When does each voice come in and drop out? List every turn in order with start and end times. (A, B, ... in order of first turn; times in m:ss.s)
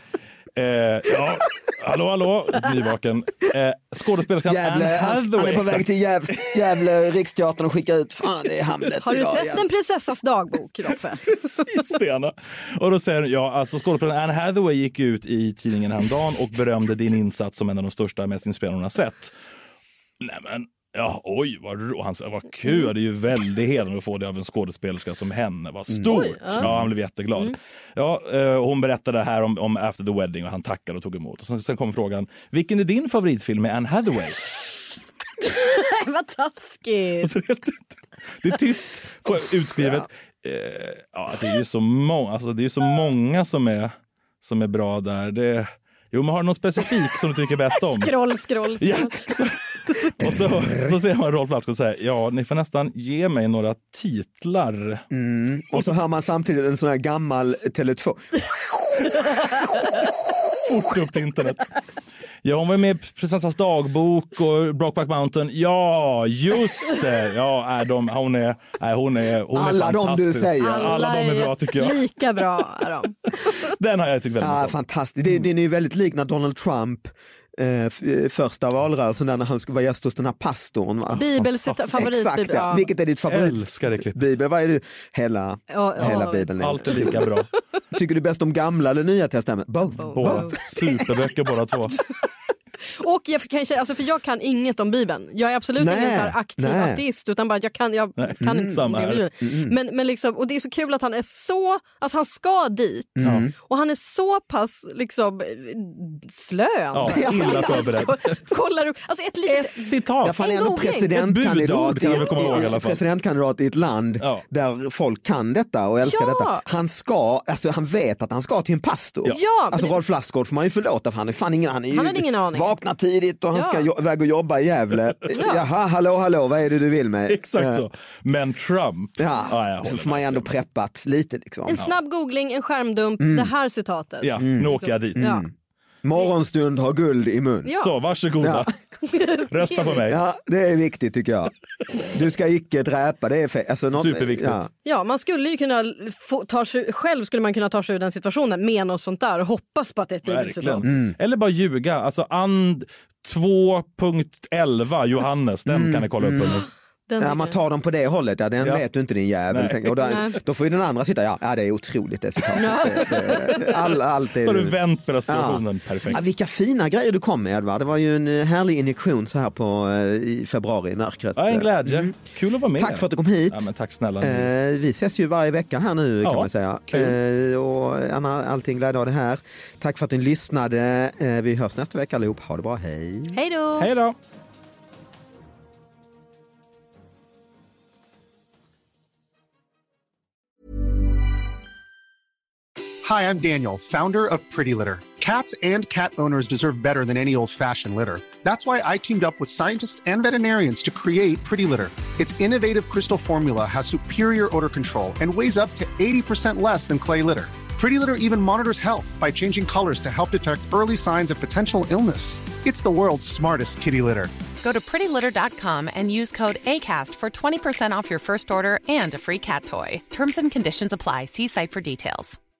0:00.6-0:05.9 A
0:04.4-0:09.7 B
0:09.0-0:11.8 C
0:11.3-0:19.3 A
0:20.2-0:34.5 A
0:25.9-0:26.9 B
0:26.1-0:26.7 C
0:35.4-0:37.3 C
0:37.2-0:48.1 A
0:47.7-0:49.3 C
0:48.8-0:55.0 A
0:50.2-0:50.9 B
0:55.1-0:58.8 B
0:59.1-0:59.8 A
1:00.5-1:01.7 A
1:02.4-1:12.0 A
1:09.5-1:11.1 B
1:10.6-1:13.7 C
1:13.4-1:14.8 A
1:14.4-1:21.3 B
1:21.2-1:22.8 C
1:21.2-1:21.8 A
1:21.8-1:27.2 B
1:23.3-1:24.2 A
1:25.7-1:27.1 C
1:26.0-1:27.5 A
1:27.9-1:31.0 B
1:30.0-1:30.6 C
1:30.1-1:32.0 A
1:32.9-1:51.1 C
1:35.8-1:37.0 B
1:38.2-1:39.3 A
1:38.4-1:39.7 B
1:43.2-1:43.5 B
1:46.9-1:48.4 A
1:47.0-1:47.9 B
1:49.5-1:50.4 A
1:50.2-2:07.8 B
1:51.1-1:53.0 A
1:52.1-1:52.7 C
1:54.2-1:54.4 A
1:56.0-1:56.6 C
1:59.3-2:00.0 C
2:01.9-2:02.7 C
2:03.5-2:03.8 C
2:05.3-2:05.6 C
2:07.3-2:10.5 A
2:09.2-2:11.8 B
2:11.7-2:15.4 C
2:13.2-2:13.5 B
2:14.2-2:15.3 A
2:14.4-2:15.5 B
2:16.0-2:17.8 B
2:17.6-2:17.9 C
2:17.8-2:18.7 A
2:18.4-2:18.7 B
2:19.0-2:19.9 C
2:19.4-2:20.2 A
2:19.8-2:24.7 B
2:24.0-2:24.7 A
2:24.8-2:30.8 C
2:30.2-2:36.6 A
2:30.8-2:31.2 B
2:35.7-2:36.6 B
2:36.4-2:37.6 C
2:37.2-2:52.1 B
2:39.5-2:40.0 A
2:40.0-2:40.4 C
2:42.6-2:43.7 C
2:44.4-2:46.2 A
2:51.4-2:54.5 A
2:52.7-2:53.7 B
2:54.2-3:03.4 B
2:56.2-2:57.1 A
3:03.3-3:03.9 C
3:03.8-3:04.1 A
3:13.0-3:34.3 D
3:34.6-3:42.4 E